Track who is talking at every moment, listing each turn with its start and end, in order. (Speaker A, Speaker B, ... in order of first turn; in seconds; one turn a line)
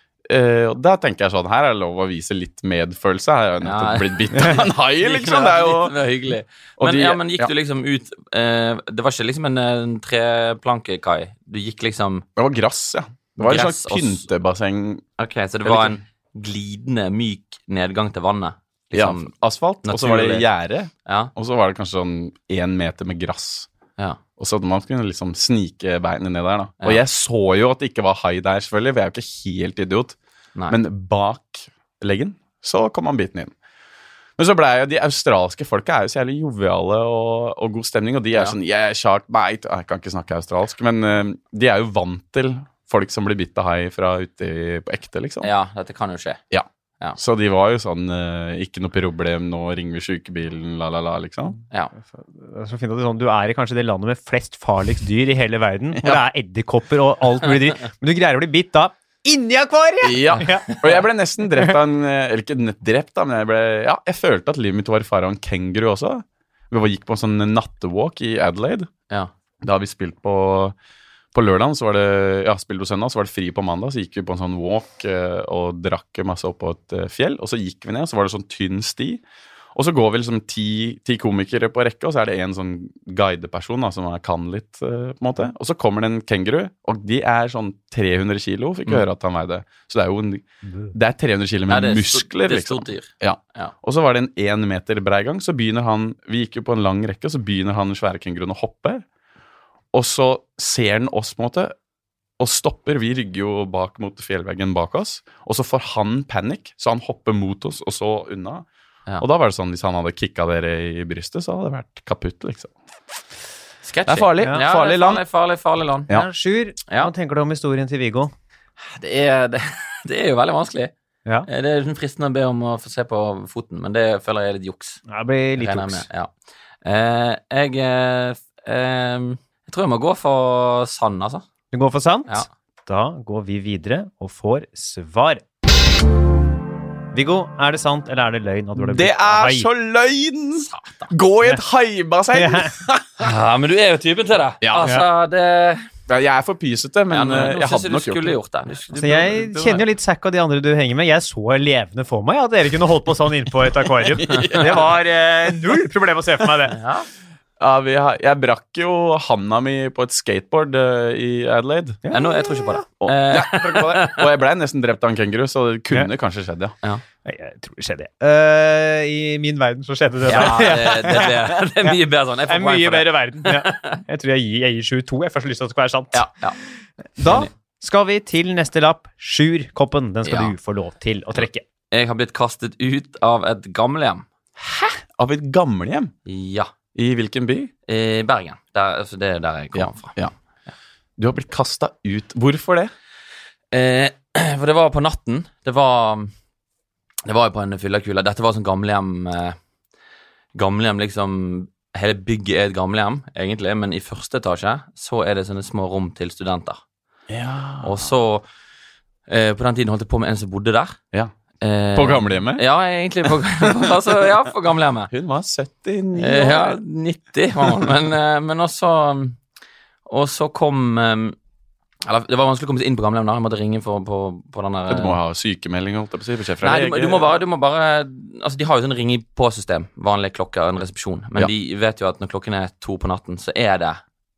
Speaker A: 0.3-6.0
Speaker B: 3.6-12.2
Speaker A: 6.8-7.5
Speaker A: 12.4-15.0
Speaker B: 13.4-14.2
Speaker B: 15.2-19.3
Speaker A: 15.6-16.0
Speaker A: 18.9-23.7
Speaker B: 19.8-20.5
Speaker B: 21.1-21.3
Speaker A: 24.4-30.1
Speaker A: 30.7-33.5
Speaker A: 34.4-45.5
Speaker B: 45.4-46.4
Speaker A: 46.5-51.6
Speaker C: 52.1-60.7
Speaker A: 56.0-56.2
Speaker A: 60.0-68.9
Speaker A: 69.6-70.8
Speaker A: 71.3-79.2
Speaker A: 79.7-99.0
Speaker B: 91.7-93.7
Speaker A: 99.9-101.7
Speaker A: 102.4-108.6
Speaker A: 109.2-112.7
Speaker B: 113.8-116.1
Speaker A: 114.1-115.2
Speaker C: 116.1-118.3
Speaker B: 118.8-120.9
Speaker B: 121.5-125.0
Speaker C: 125.1-126.0
Speaker B: 125.6-126.3
Speaker B: 126.8-131.4
Speaker C: 131.7-135.4
Speaker C: 137.1-139.7
Speaker A: 138.8-143.3
Speaker B: 140.7-141.1
Speaker C: 142.3-142.7
Speaker B: 143.2-145.9
Speaker A: 144.6-145.0
Speaker A: 146.1-148.4
Speaker B: 147.1-149.8
Speaker C: 148.9-156.8
Speaker A: 154.1-154.9
Speaker B: 156.7-157.1
Speaker A: 157.6-162.0
Speaker C: 162.0-162.8
Speaker B: 162.1-164.3
Speaker A: 163.0-166.7
Speaker C: 167.2-176.2
Speaker B: 170.3-174.0
Speaker B: 176.1-176.6
Speaker C: 177.2-181.6
Speaker B: 180.2-180.5
Speaker B: 181.4-184.2
Speaker A: 184.6-186.1
Speaker B: 186.2-186.7
Speaker A: 186.9-187.7
Speaker B: 187.9-190.2
Speaker A: 189.7-190.3
Speaker A: 191.2-192.9
Speaker B: 193.7-196.3
Speaker B: 197.2-199.6
Speaker B: 200.5-206.8
Speaker A: 207.3-208.1
Speaker B: 207.8-208.4
Speaker B: 209.3-211.0
Speaker B: 211.6-215.1
Speaker A: 211.9-212.6
Speaker A: 215.1-216.8
Speaker B: 216.2-219.4
Speaker B: 220.1-221.3
Speaker B: 222.0-225.2
Speaker A: 224.9-227.3
Speaker B: 226.6-234.0